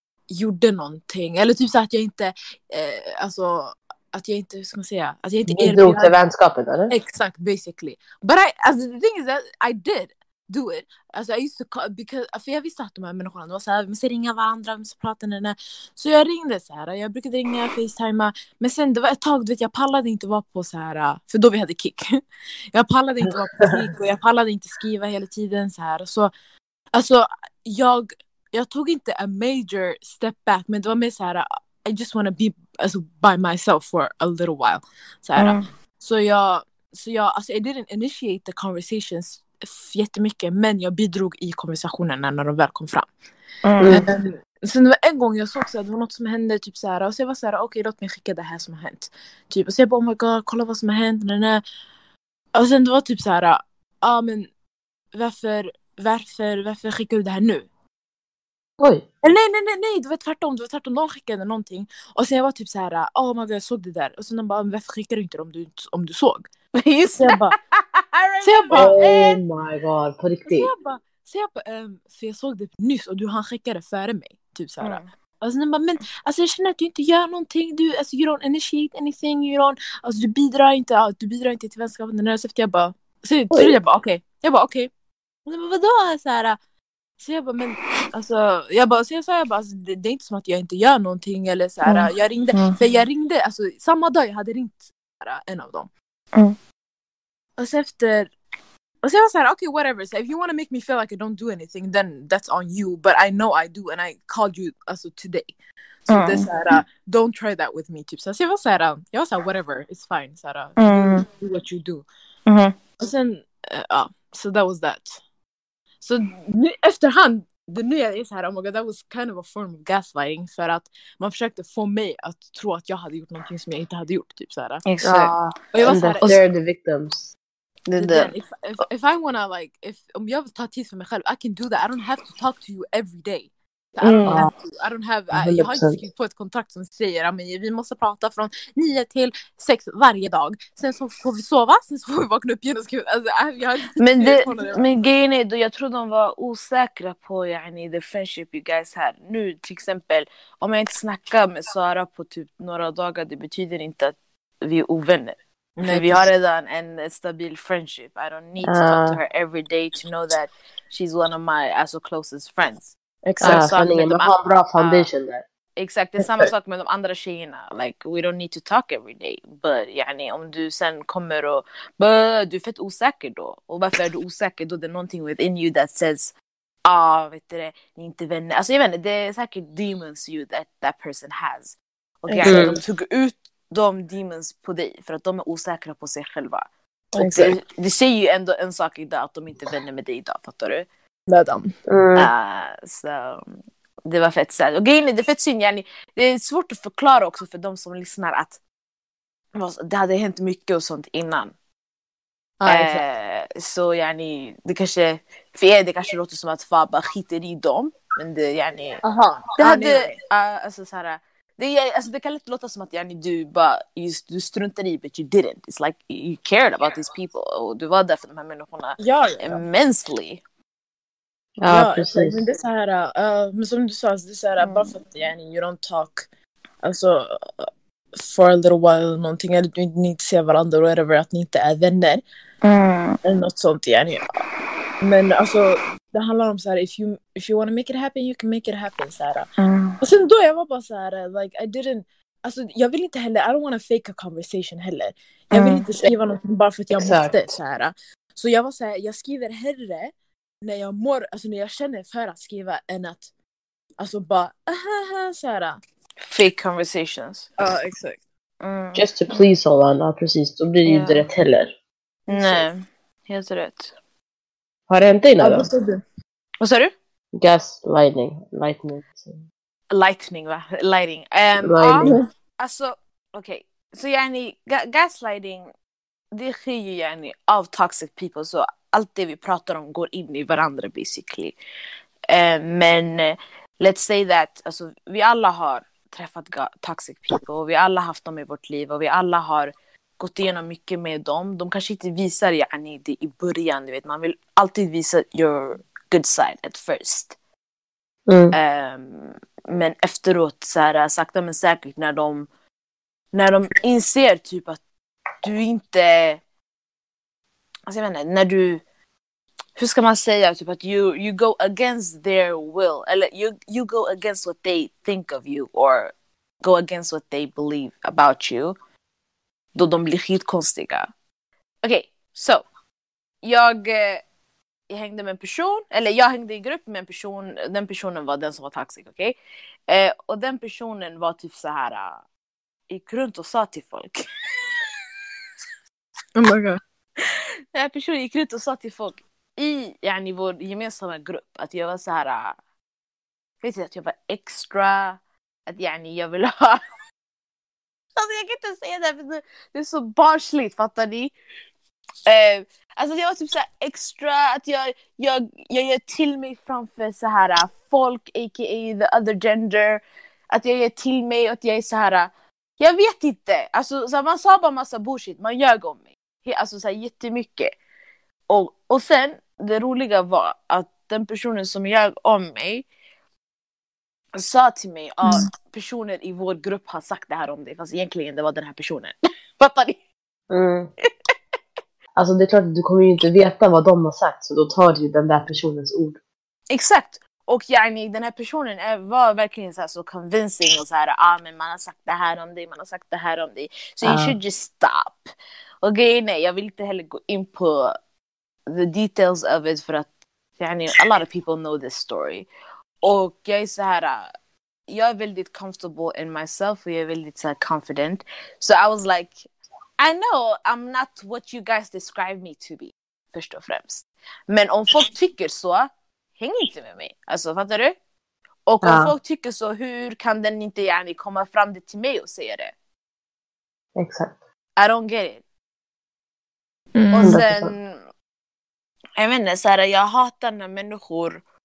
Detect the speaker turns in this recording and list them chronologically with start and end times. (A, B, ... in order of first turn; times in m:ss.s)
0:00.3-0:06.2 A
0:05.5-0:07.0 B
0:06.9-0:22.2 A
0:22.7-0:26.3 A
0:23.6-0:23.8 B
0:26.9-0:43.1 A
0:35.4-0:35.7 C
0:43.6-0:44.0 C
0:43.8-0:44.1 B
0:43.8-0:51.6 A
0:52.5-0:54.5 A
0:55.1-0:57.7 A
0:58.8-0:59.0 B
0:59.2-1:06.5 A
1:06.8-1:09.3 C
1:07.2-1:07.6 A
1:08.4-1:09.4 A
1:08.8-1:10.7 B
1:10.5-1:24.9 A
1:14.8-1:15.1 C
1:23.5-1:23.8 B
1:25.5-1:26.6 A
1:27.2-1:35.9 A
1:31.9-1:32.8 C
1:37.6-1:38.3 A
1:39.0-1:45.5 A
1:46.1-1:52.0 A
1:46.1-1:46.5 C
1:50.8-1:51.2 C
1:52.5-1:52.7 C
1:53.0-1:55.2 A
1:56.0-2:04.8 A
2:04.9-2:05.4 C
2:05.0-2:07.3 B
2:05.7-2:06.4 A
2:07.9-2:08.3 C
2:08.0-2:24.8 A
2:14.0-2:14.5 C
2:14.3-2:14.5 B
2:15.3-2:16.0 B
2:24.0-2:45.1 C
2:35.8-2:36.2 A
2:38.6-2:39.2 B
2:43.2-2:43.7 A
2:43.4-2:45.4 B
2:45.8-2:56.3 C
2:56.8-3:10.9 C
3:02.3-3:02.7 A
3:02.4-3:02.8 B
3:07.2-3:07.6 A
3:11.3-3:11.7 A
3:11.9-3:12.3 B
3:12.2-3:18.6 C
3:19.6-3:21.5 C
3:22.6-3:23.0 A
3:22.7-3:29.0 C
3:29.0-3:30.1 A
3:29.6-3:40.4 C
3:39.0-3:39.6 A
3:41.6-3:42.4 B
3:41.7-3:46.3 A
3:44.6-3:44.9 C
3:46.8-3:52.2 A
3:52.6-3:53.2 C
3:53.2-3:54.2 A
3:55.0-3:59.5 A
3:59.6-4:00.0 C
4:00.0-4:10.1 A
4:05.5-4:05.8 C
4:06.9-4:07.5 B
4:10.6-4:13.3 A
4:14.0-4:15.8 A
4:16.2-4:17.5 C
4:17.6-4:18.2 A
4:18.6-4:19.4 C
4:19.0-4:21.7 B
4:20.8-4:21.3 C
4:22.3-4:23.9 C
4:22.3-4:22.6 A
4:24.9-4:25.7 B
4:25.4-4:26.0 A
4:26.6-4:26.9 C
4:27.4-4:29.4 B
4:29.9-4:35.7 C
4:31.6-4:32.2 B
4:36.3-4:41.6 C
4:42.3-4:57.4 C
4:58.3-4:58.6 B
4:58.5-5:02.5 C
5:03.3-5:04.8 C
5:05.4-5:06.4 C
5:07.9-5:08.8 C
5:09.8-5:18.8 C
5:19.8-5:21.1 C
5:21.8-5:22.7 C
5:23.4-5:24.2 C
5:24.9-5:29.4 C
5:29.9-5:32.2 C
5:32.9-5:34.9 C
5:36.4-5:36.8 A
5:37.2-5:42.6 C
5:43.6-5:46.8 C
5:48.2-5:51.3 C
5:52.3-6:07.8 C
6:08.5-6:12.9 C
6:14.4-6:20.0 C
6:20.5-6:20.9 B
6:22.2-6:26.2 B
6:26.7-6:35.3 C
6:34.0-6:34.4 B
6:35.8-6:38.0 C
6:38.7-6:42.5 C
6:43.0-6:44.3 C
6:44.9-6:49.5 C
6:50.0-6:58.0 C
6:58.7-7:02.7 C
6:58.8-6:59.1 B
7:04.0-7:04.4 B
7:04.8-7:05.4 C
7:07.0-7:07.4 A
7:07.1-7:08.1 C
7:07.2-7:07.7 B
7:09.2-7:11.4 C